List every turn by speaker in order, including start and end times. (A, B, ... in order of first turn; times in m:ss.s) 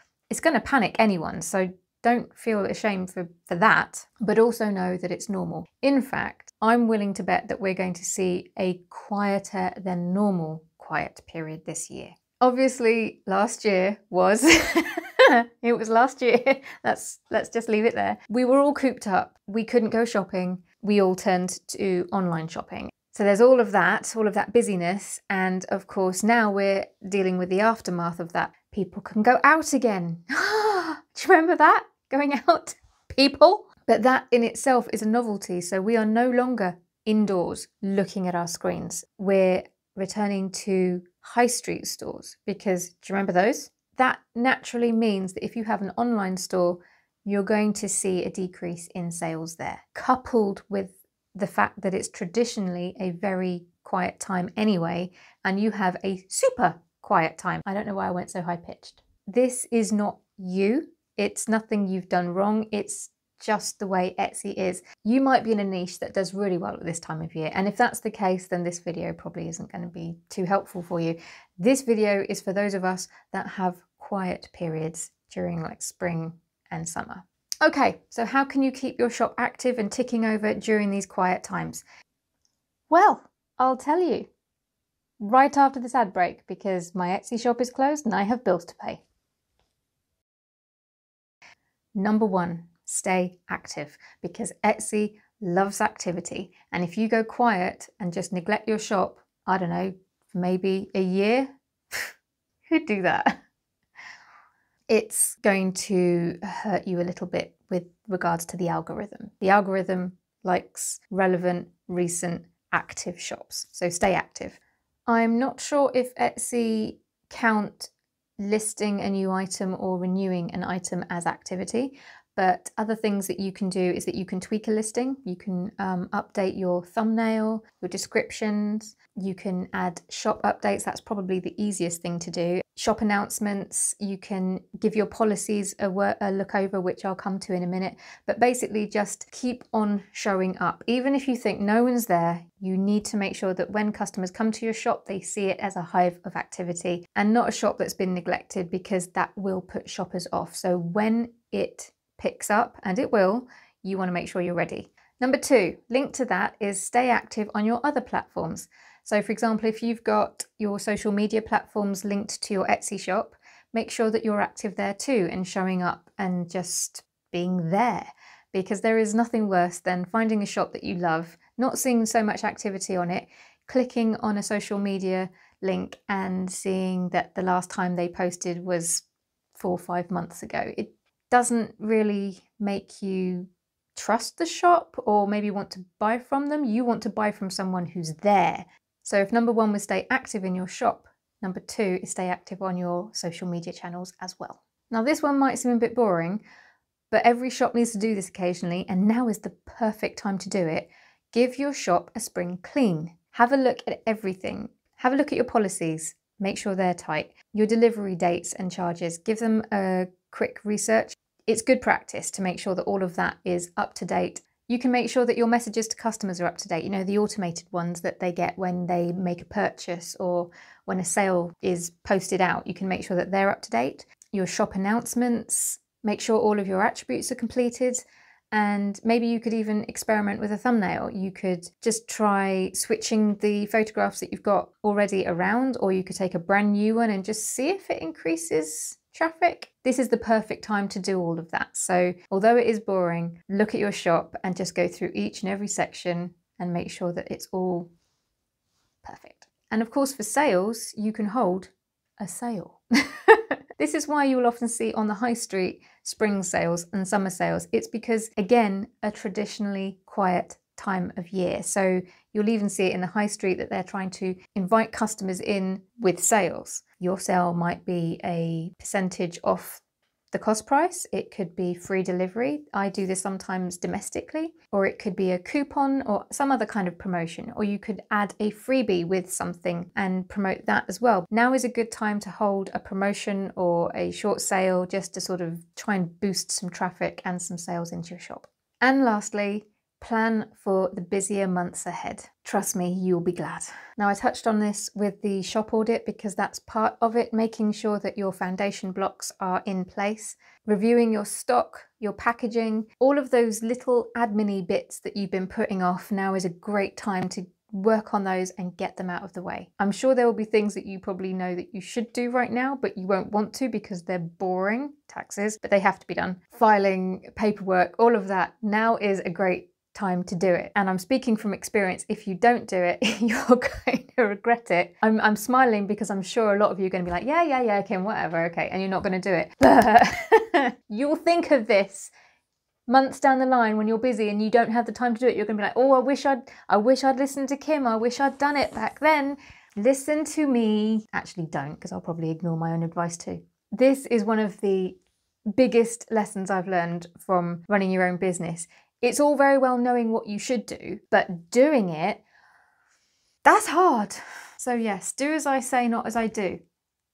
0:00.3-1:21.8 A
1:22.9-1:24.3 A
1:25.2-1:29.0 A
1:32.0-1:42.1 A
1:42.7-1:43.4 A
1:44.9-3:16.4 A
3:17.1-4:07.9 A
4:09.0-4:29.8 A
4:30.3-5:32.1 A
5:32.9-5:45.0 A
5:45.6-5:52.2 A
5:53.4-5:56.6 A